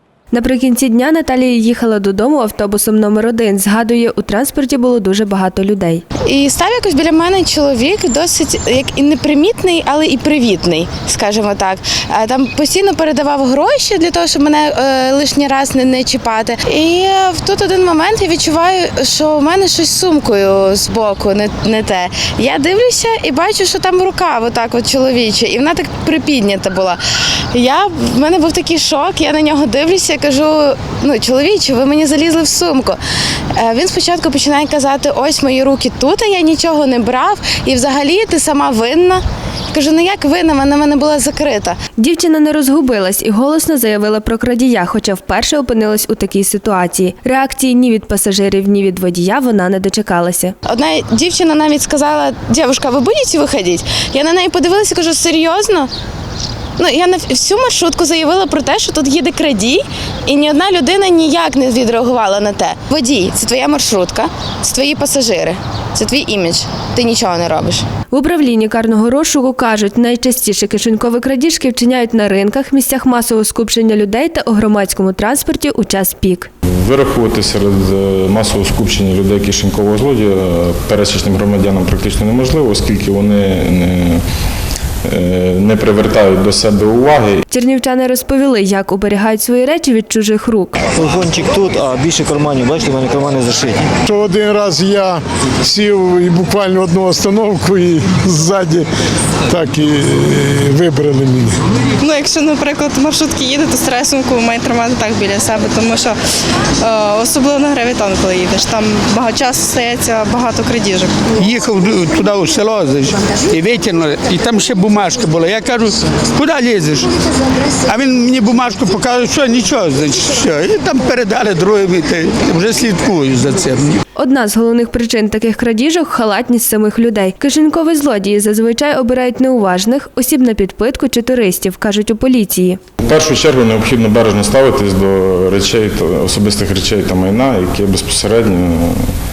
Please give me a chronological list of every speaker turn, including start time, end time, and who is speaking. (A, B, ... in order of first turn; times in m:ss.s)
0:00.3-0:06.0 A
0:06.2-0:27.0 B
0:27.5-0:33.0 B
0:33.6-0:41.8 B
0:42.0-0:50.5 A
0:50.7-0:55.9 B
0:56.8-1:07.8 B
1:08.1-1:16.5 A
1:16.8-1:24.2 C
1:25.0-1:27.4 C
1:27.5-1:30.7 A
1:30.8-1:33.9 D
1:34.0-1:38.9 E
1:39.5-1:41.6 E
1:42.0-1:46.2 F
1:46.8-1:51.2 F
1:51.3-1:57.1 G
1:57.9-2:04.0 G
2:04.2-2:12.8 A
2:13.0-2:19.0 C